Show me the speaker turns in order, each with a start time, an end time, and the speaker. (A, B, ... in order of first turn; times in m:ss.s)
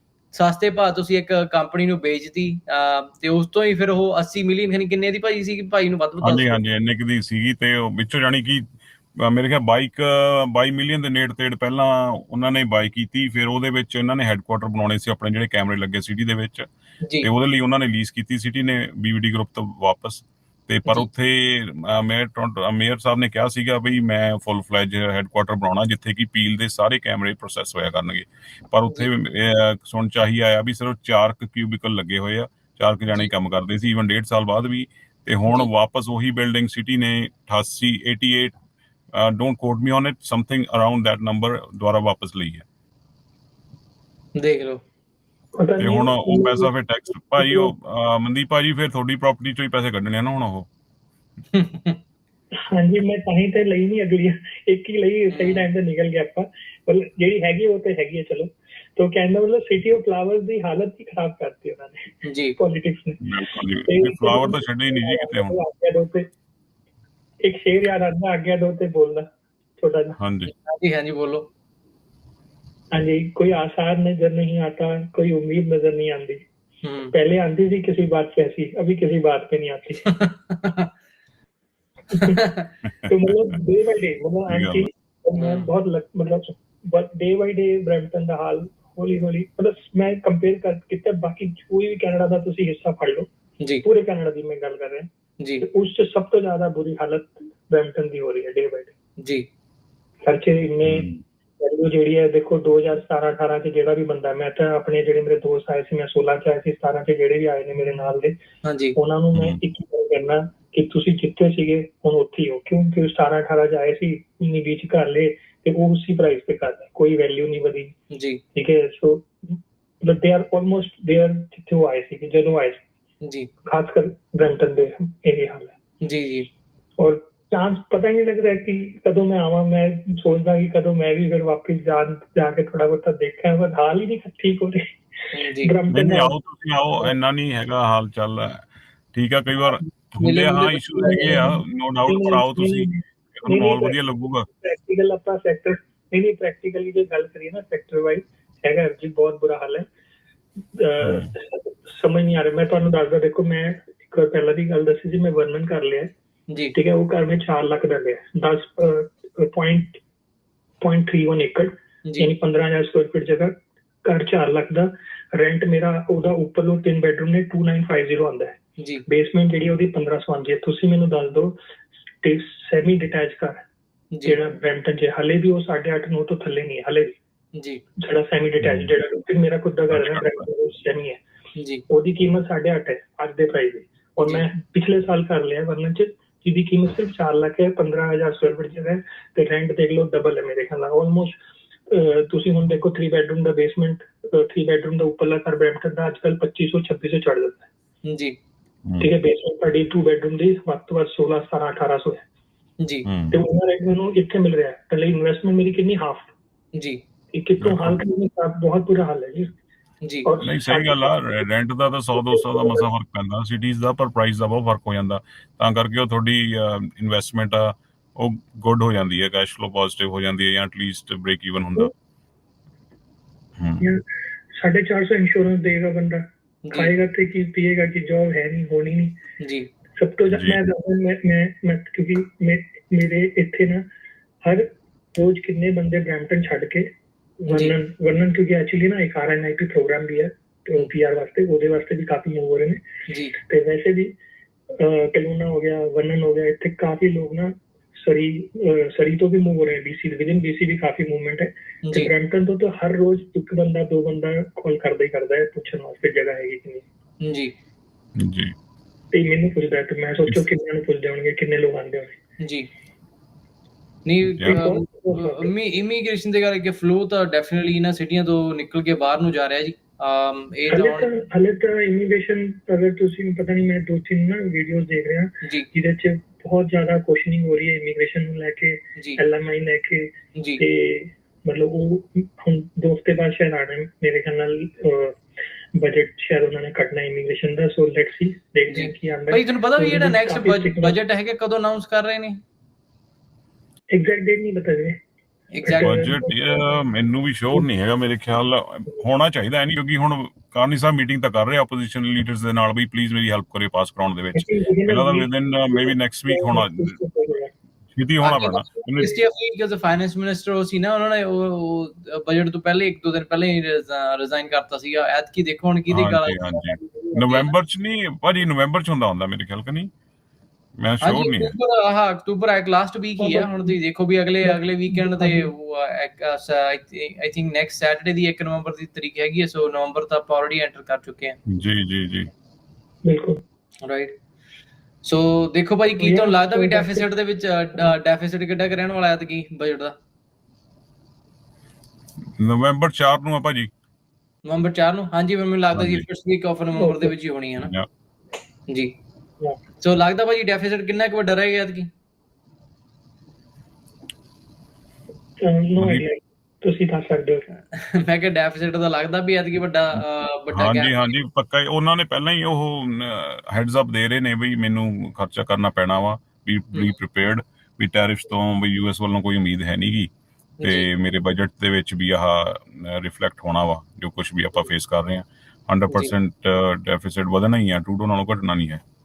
0:00.3-0:06.6 A
0:06.2-0:16.6 B
0:17.2-0:38.6 B
0:39.2-0:42.6 B
0:44.4-0:44.8 A
0:45.6-0:46.7 C
0:45.8-0:50.7 B
0:47.3-0:47.7 C
0:51.6-0:52.0 A
0:52.7-1:06.3 C
0:55.3-0:55.7 A
1:02.2-1:02.6 A
1:03.2-1:05.6 B
1:07.4-1:09.3 C
1:09.8-1:10.2 C
1:10.2-1:10.5 B
1:10.5-1:11.5 A
1:12.9-1:16.5 C
1:16.8-1:17.1 A
1:17.1-1:20.2 C
1:20.1-1:20.9 A
1:22.1-1:22.6 A
1:22.1-1:22.4 C
1:22.8-1:23.1 B
1:23.0-1:33.3 C
1:24.5-1:24.9 B
1:25.4-1:25.7 A
1:33.8-1:35.1 C
1:35.6-1:38.9 C
1:39.2-1:39.5 A
1:40.2-1:41.1 C
1:40.8-1:41.2 B
1:41.6-1:48.4 C
1:48.6-1:49.0 A
1:49.0-1:57.9 C
1:58.1-1:58.4 A
1:58.6-2:02.8 C
2:03.6-2:05.7 C
2:06.0-2:06.5 A
2:07.0-2:16.4 C
2:15.3-2:15.7 A
2:15.9-2:24.5 B
2:20.2-2:21.5 A
2:21.0-2:29.9 C
2:30.8-2:36.1 C
2:31.0-2:31.3 B
2:36.7-2:40.0 C
2:40.8-2:51.6 C
2:42.1-2:42.3 A
2:48.8-2:49.0 A
2:52.2-2:53.6 C
2:54.2-2:57.2 C
2:57.6-2:57.8 A
2:58.0-3:01.2 C
2:58.6-2:58.9 B
2:59.9-3:00.4 B
3:01.6-3:01.8 A
3:01.9-3:11.4 C
3:11.9-3:17.7 C
3:18.1-3:18.4 A
3:19.0-3:22.2 C
3:22.8-3:23.1 A
3:23.0-3:23.4 B
3:23.3-3:26.3 C
3:27.3-3:29.6 C
3:27.6-3:28.0 B
3:30.2-3:31.5 C
3:30.4-3:41.9 B
3:32.1-3:32.8 C
3:43.6-3:43.9 B
3:44.6-3:49.2 C
3:46.7-3:46.9 A
3:49.4-3:49.7 A
3:50.0-3:53.8 C
3:50.3-3:50.6 B
3:54.4-3:56.9 C
3:57.4-4:02.8 C
3:57.5-3:57.8 A
4:03.1-4:03.4 A
4:03.4-4:04.2 C
4:04.8-4:16.8 C
4:11.9-4:12.1 A
4:17.2-4:17.5 A
4:18.2-4:18.5 B
4:19.1-4:22.2 C
4:22.4-4:22.7 A
4:24.1-4:31.1 A
4:24.5-4:25.5 C
4:30.7-4:45.2 C
4:45.8-4:51.0 C
4:48.7-4:52.4 A
4:53.9-4:55.0 C
4:55.5-4:56.1 A
4:55.6-4:56.8 C
4:55.8-5:07.0 B
5:04.4-5:07.5 C
5:07.9-5:09.1 B
5:08.2-5:17.5 A
5:15.9-5:19.9 B
5:20.8-5:21.6 B
5:21.0-5:31.4 A
5:23.2-5:23.8 C
5:24.4-5:25.5 C
5:31.5-5:32.3 B
5:33.0-5:33.4 C
5:33.8-5:34.1 A
5:35.0-5:40.0 A
5:36.0-5:37.1 C
5:42.4-5:43.7 B
5:44.5-5:47.7 A
5:45.7-5:46.0 B
5:46.8-5:47.1 C
5:47.6-5:47.9 B
5:49.8-5:51.9 A
5:55.4-5:57.5 C
5:55.8-5:56.0 B
5:57.7-6:01.1 A
6:00.5-6:10.1 B
6:10.6-6:10.9 A
6:10.6-6:18.8 B